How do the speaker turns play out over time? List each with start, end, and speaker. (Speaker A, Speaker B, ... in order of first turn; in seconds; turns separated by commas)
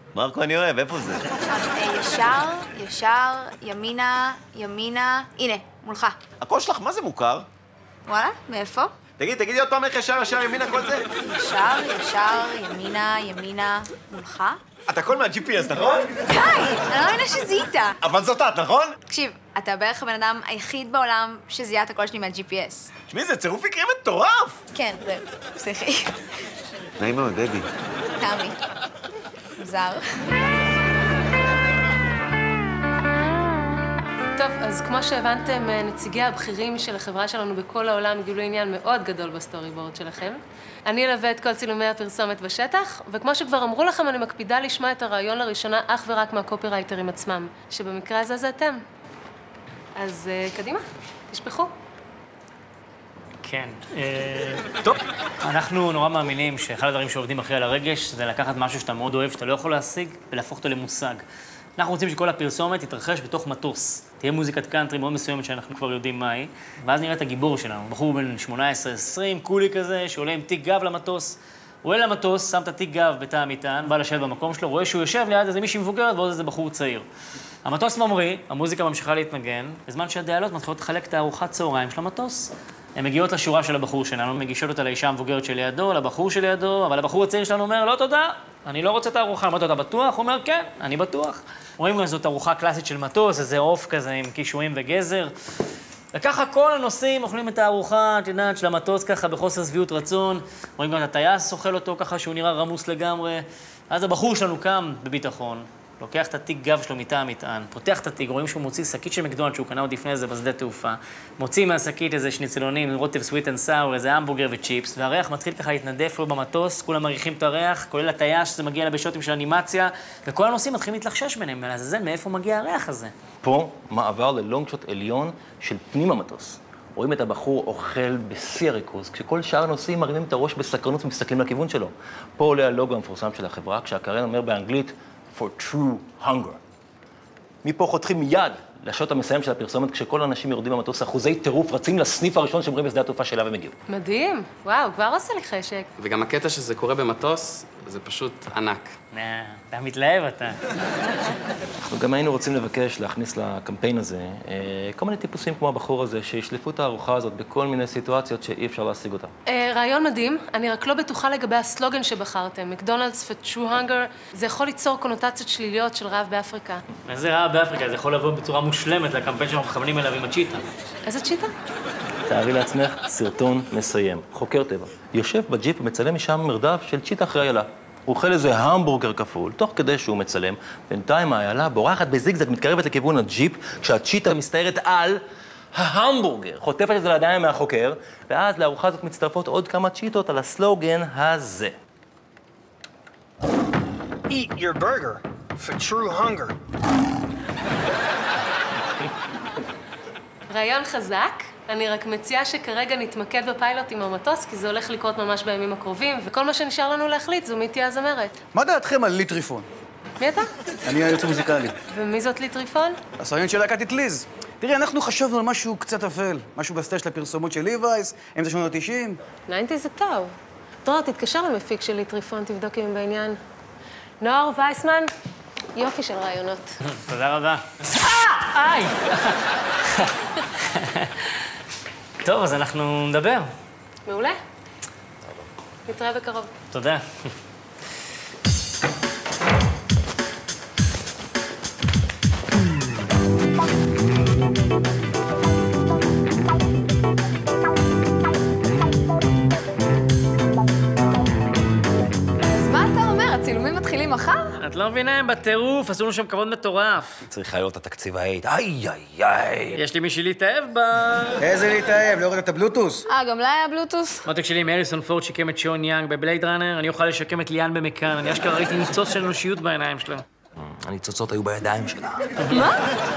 Speaker A: 0.1-1.3, Speaker B: 1.4-6.2, Speaker A: 6.4-7.5, Speaker B: 8.1-8.9, Speaker A: 9.2-11.1, Speaker B: 11.2-14.6, Speaker A: 14.9-16.1, Speaker B: 16.3-18.0, Speaker A: 18.0-19.0, Speaker B: 19.1-22.9, Speaker A: 23.1-24.6, Speaker B: 24.7-26.1, Speaker A: 27.0-27.7, Speaker B: 28.2-28.6, Speaker B: 29.6-30.0, Speaker C: 34.4-48.8, Speaker C: 50.0-51.7, Speaker D: 53.4-61.2, Speaker D: 61.8-77.1, Speaker D: 77.7-95.3, Speaker D: 96.1-123.1, Speaker E: 123.4-136.6, Speaker E: 137.6-143.8, Speaker C: 143.9-145.9, Speaker F: 146.0-148.9, Speaker D: 149.1-150.6, Speaker E: 151.8-159.3, Speaker C: 159.5-166.8, Speaker D: 167.1-170.7, Speaker C: 171.1-171.5, Speaker E: 172.3-185.2, Speaker E: 185.7-191.8, Speaker G: 194.3-196.6, Speaker C: 200.5-208.3, Speaker H: 208.5-209.7, Speaker C: 210.2-210.5, Speaker H: 210.9-211.7, Speaker C: 211.9-213.0, Speaker H: 213.2-219.2, Speaker C: 219.5-223.4, Speaker C: 224.2-225.1, Speaker C: 225.8-226.7, Speaker D: 226.8-231.3, Speaker D: 232.2-233.5, Speaker C: 234.1-234.4, Speaker C: 235.9-236.5, Speaker D: 236.7-237.0, Speaker I: 252.5-254.6, Speaker D: 254.6-257.2, Speaker E: 257.3-259.8, Speaker D: 259.7-261.4, Speaker H: 261.4-263.1, Speaker I: 263.1-264.2, Speaker D: 264.2-270.2, Speaker E: 270.6-272.3, Speaker I: 272.5-272.8